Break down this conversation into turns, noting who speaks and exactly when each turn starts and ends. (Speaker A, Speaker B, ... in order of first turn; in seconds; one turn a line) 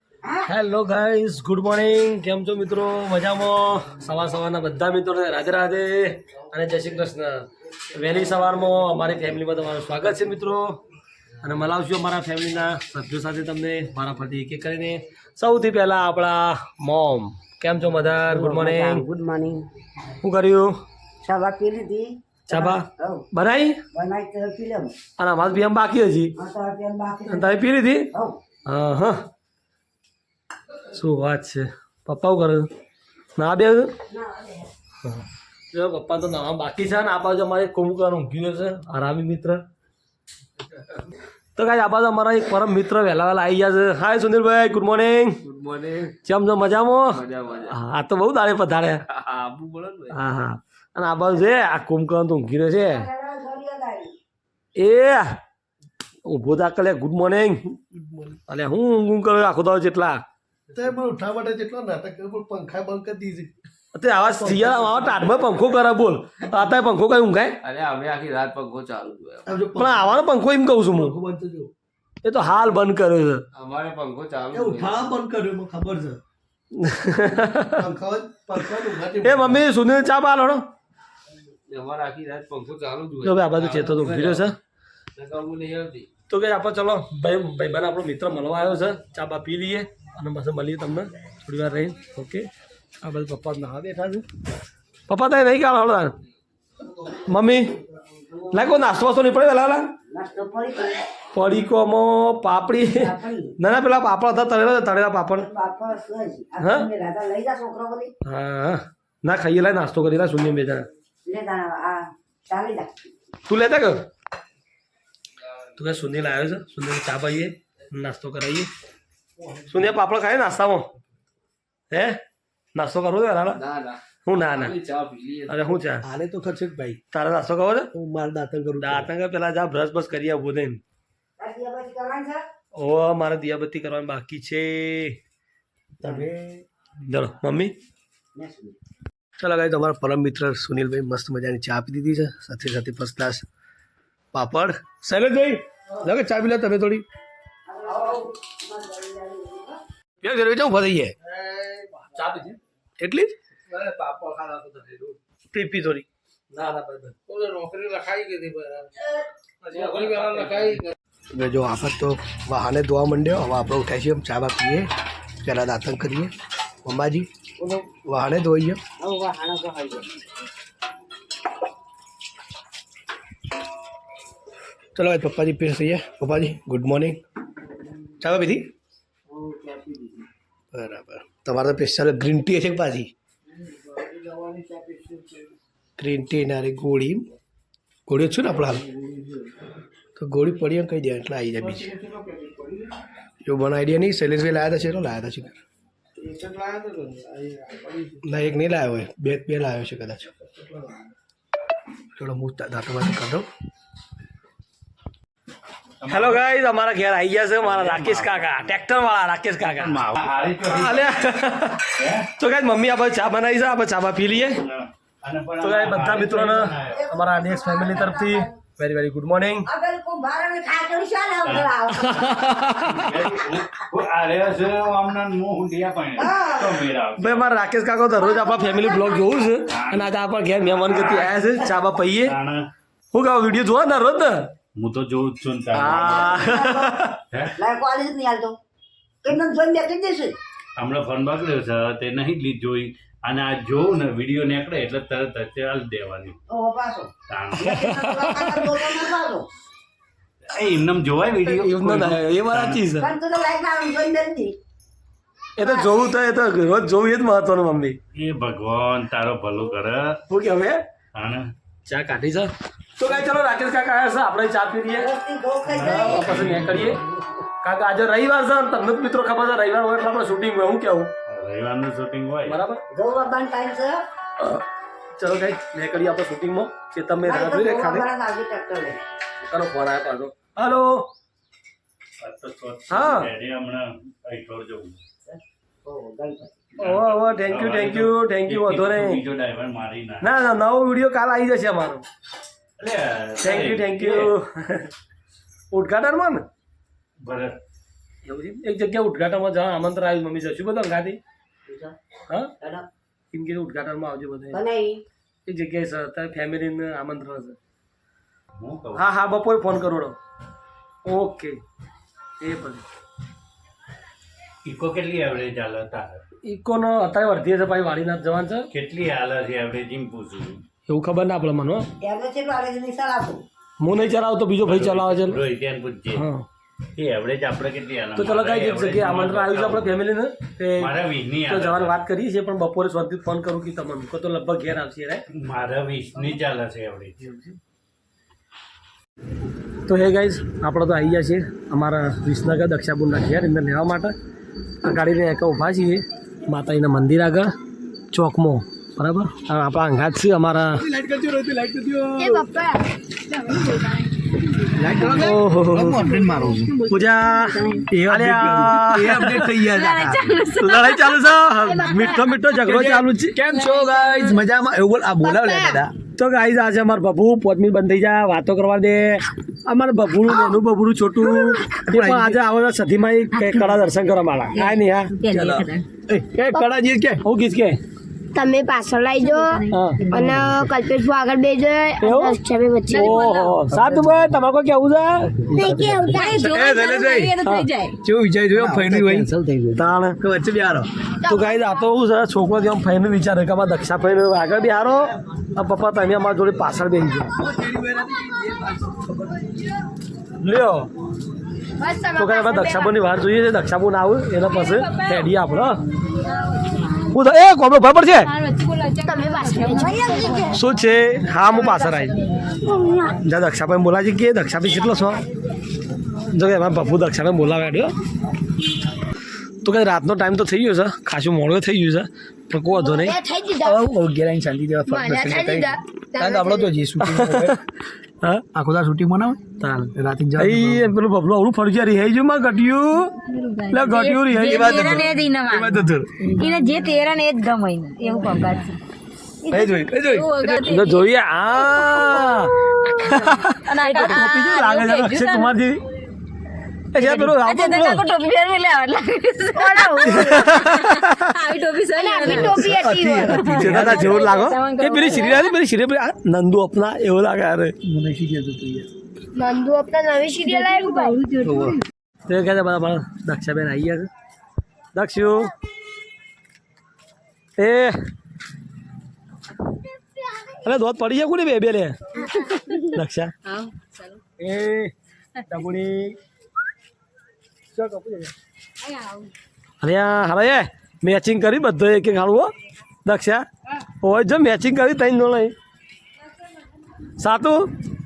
Speaker A: 0.5-10.8
Speaker A: 11.4-19.1
Speaker B: 18.3-19.6
Speaker A: 20.2-20.8
Speaker B: 21.2-23.2
Speaker A: 22.5-23.8
Speaker B: 23.9-24.9
Speaker A: 25.2-26.3
Speaker B: 26.4-27.6
Speaker A: 27.3-28.1
Speaker B: 28.1-28.4
Speaker A: 28.6-29.2
Speaker A: 30.9-32.7
Speaker A: 33.4-33.9
Speaker B: 34.1-34.6
Speaker A: 35.0-39.6
Speaker A: 41.5-45.4
Speaker C: 45.4-46.1
Speaker A: 46.2-49.0
Speaker C: 47.1-47.8
Speaker C: 49.1-50.2
Speaker A: 50.1-53.1
Speaker B: 52.8-54.1
Speaker A: 54.8-55.4
Speaker A: 56.2-57.8
Speaker D: 57.9-58.4
Speaker A: 58.5-60.2
Speaker D: 60.7-63.5
Speaker A: 63.9-67.6
Speaker D: 64.4-65.1
Speaker C: 67.6-69.6
Speaker D: 69.5-70.2
Speaker A: 69.7-71.2
Speaker D: 70.9-71.7
Speaker A: 72.2-73.4
Speaker C: 73.5-75.1
Speaker D: 74.5-76.2
Speaker A: 76.7-77.9
Speaker D: 77.8-79.2
Speaker C: 78.8-79.6
Speaker A: 79.2-80.7
Speaker C: 81.7-84.5
Speaker A: 83.2-84.5
Speaker C: 85.1-86.1
Speaker A: 86.3-92.5
Speaker A: 93.0-94.2
Speaker A: 95.1-96.2
Speaker A: 97.3-97.7
Speaker A: 98.5-99.9
Speaker B: 100.1-101.1
Speaker A: 101.3-105.5
Speaker B: 102.8-103.5
Speaker B: 105.4-108.1
Speaker A: 106.6-106.9
Speaker A: 108.2-110.9
Speaker B: 111.2-113.1
Speaker A: 113.5-114.0
Speaker A: 115.8-118.7
Speaker A: 119.7-120.9
Speaker A: 121.9-122.2
Speaker A: 122.7-123.6
Speaker C: 123.5-125.8
Speaker A: 124.2-124.8
Speaker A: 125.5-126.0
Speaker D: 126.0-127.0
Speaker A: 127.1-127.9
Speaker D: 127.9-129.1
Speaker A: 128.8-130.8
Speaker B: 131.4-132.4
Speaker A: 132.8-135.2
Speaker D: 136.0-136.6
Speaker A: 137.0-137.7
Speaker B: 138.3-138.8
Speaker D: 139.4-143.4
Speaker D: 144.3-147.0
Speaker B: 147.7-149.8
Speaker D: 150.2-151.1
Speaker C: 151.3-152.5
Speaker A: 152.2-152.5
Speaker D: 153.0-153.3
Speaker C: 153.7-155.2
Speaker A: 155.5-157.1
Speaker C: 157.3-158.9
Speaker C: 159.6-160.9
Speaker D: 161.3-164.9
Speaker D: 165.4-166.3
Speaker D: 166.8-167.2
Speaker D: 167.9-168.8
Speaker C: 169.0-170.0
Speaker D: 174.9-177.1
Speaker D: 178.2-178.7
Speaker C: 179.3-180.2
Speaker D: 180.7-183.1
Speaker C: 183.5-185.5
Speaker D: 186.0-187.2
Speaker D: 188.1-188.8
Speaker C: 188.8-189.4
Speaker D: 190.2-192.0
Speaker C: 191.7-192.9
Speaker D: 193.4-195.6
Speaker C: 196.2-198.2
Speaker A: 198.3-199.4
Speaker D: 199.0-200.3
Speaker D: 202.2-203.5
Speaker E: 206.0-206.4
Speaker A: 206.1-210.0
Speaker E: 207.6-208.7
Speaker E: 209.6-211.3
Speaker A: 210.6-214.6
Speaker E: 211.9-212.3
Speaker E: 214.4-217.0
Speaker A: 215.6-219.7
Speaker B: 216.9-218.5
Speaker B: 219.7-222.3
Speaker E: 221.4-221.7
Speaker A: 221.9-223.4
Speaker E: 222.8-227.5
Speaker B: 226.2-226.8
Speaker A: 227.2-232.3
Speaker E: 229.7-230.1
Speaker E: 232.2-232.7
Speaker A: 233.1-234.5
Speaker E: 234.8-236.5
Speaker A: 235.7-237.2
Speaker B: 235.8-237.0
Speaker B: 237.6-238.6
Speaker B: 239.2-240.3
Speaker E: 240.8-246.4
Speaker B: 246.5-249.5
Speaker E: 247.3-248.3
Speaker A: 247.6-248.9
Speaker E: 250.5-252.8
Speaker A: 251.4-253.1
Speaker B: 253.0-254.6
Speaker A: 255.6-258.0
Speaker B: 255.6-255.9
Speaker E: 258.1-260.2
Speaker A: 260.3-260.8
Speaker E: 261.1-261.5
Speaker A: 261.9-265.1
Speaker B: 264.9-266.5
Speaker E: 265.7-267.0
Speaker A: 265.8-267.0
Speaker A: 267.6-271.1
Speaker E: 271.3-272.6
Speaker A: 272.5-272.8
Speaker B: 272.9-274.1
Speaker A: 274.4-274.6
Speaker A: 275.2-278.1
Speaker B: 277.2-279.0
Speaker A: 279.4-281.1
Speaker E: 282.2-285.0
Speaker A: 282.9-283.3
Speaker B: 285.2-286.5
Speaker A: 286.8-289.2
Speaker E: 286.8-290.2
Speaker A: 290.2-292.0
Speaker E: 292.8-294.3
Speaker A: 293.4-294.9
Speaker A: 295.7-296.4
Speaker E: 297.2-297.6
Speaker A: 298.2-301.2
Speaker B: 301.7-301.9
Speaker B: 302.6-302.9
Speaker A: 303.3-304.6
Speaker B: 304.5-305.0
Speaker A: 305.4-307.6
Speaker E: 308.6-309.0
Speaker A: 308.9-310.1
Speaker A: 311.0-311.6
Speaker A: 312.4-312.8
Speaker E: 314.6-316.2
Speaker A: 316.4-318.7
Speaker E: 318.7-320.6
Speaker A: 320.9-321.9
Speaker B: 322.0-323.4
Speaker A: 323.8-325.4
Speaker E: 324.6-326.2
Speaker A: 326.1-326.4
Speaker E: 326.9-329.9
Speaker A: 328.2-330.9
Speaker E: 330.8-332.0
Speaker A: 331.4-335.2
Speaker E: 335.3-337.3
Speaker A: 339.9-344.1
Speaker A: 344.8-347.5
Speaker A: 348.1-350.8
Speaker D: 350.7-352.5
Speaker F: 352.2-354.1
Speaker F: 354.6-357.9
Speaker D: 354.7-356.8
Speaker A: 355.1-356.1
Speaker A: 356.9-359.5
Speaker D: 357.9-360.4
Speaker G: 359.2-362.2
Speaker A: 360.6-363.4
Speaker F: 361.6-361.9
Speaker D: 362.6-365.9
Speaker G: 363.4-364.4
Speaker F: 365.3-365.8
Speaker A: 366.1-375.1
Speaker D: 371.8-372.4
Speaker G: 373.4-373.8
Speaker G: 374.5-375.8
Speaker D: 375.3-377.2
Speaker A: 377.2-377.8
Speaker F: 378.3-383.1
Speaker G: 379.2-379.9
Speaker A: 379.7-380.0
Speaker D: 380.1-380.7
Speaker A: 382.0-386.0
Speaker G: 382.9-383.6
Speaker D: 383.7-384.0
Speaker D: 385.5-387.4
Speaker F: 385.5-386.5
Speaker G: 386.0-388.0
Speaker A: 387.4-387.7
Speaker D: 388.0-390.9
Speaker B: 388.7-389.1
Speaker A: 389.7-390.2
Speaker A: 391.2-397.3
Speaker F: 391.2-391.6
Speaker D: 397.4-399.4
Speaker A: 400.4-400.9
Speaker F: 401.8-403.0
Speaker A: 402.2-405.8
Speaker G: 404.5-405.3
Speaker A: 407.1-408.3
Speaker G: 408.2-410.6
Speaker F: 409.0-410.6
Speaker A: 410.5-412.2
Speaker F: 411.7-411.9
Speaker F: 412.6-413.1
Speaker A: 413.1-415.2
Speaker A: 416.3-417.9
Speaker A: 419.6-423.2
Speaker F: 422.8-423.8
Speaker D: 423.6-427.6
Speaker F: 424.9-426.7
Speaker A: 427.0-427.6
Speaker D: 428.5-429.4
Speaker A: 429.6-433.1
Speaker D: 429.9-430.9
Speaker G: 433.2-438.8
Speaker A: 433.7-435.1
Speaker D: 434.4-436.4
Speaker D: 439.5-440.6
Speaker G: 440.0-441.1
Speaker A: 440.6-445.8
Speaker G: 441.8-442.2
Speaker G: 443.0-445.5
Speaker A: 446.9-448.0
Speaker G: 446.9-455.5
Speaker F: 449.5-450.6
Speaker A: 450.0-451.1
Speaker F: 451.9-453.4
Speaker D: 452.4-454.2
Speaker A: 453.2-457.8
Speaker D: 457.8-458.9
Speaker F: 459.3-461.2
Speaker G: 460.4-461.8
Speaker D: 461.4-461.8
Speaker A: 462.3-464.1
Speaker A: 464.9-465.5
Speaker A: 467.6-468.0
Speaker A: 470.6-472.0
Speaker G: 472.2-472.9
Speaker A: 472.9-473.3
Speaker G: 473.4-474.2
Speaker A: 474.4-474.9
Speaker A: 475.5-476.1
Speaker A: 477.7-478.3
Speaker G: 478.8-479.3
Speaker A: 479.8-482.5
Speaker A: 483.0-483.4
Speaker A: 484.0-485.5
Speaker A: 487.2-487.7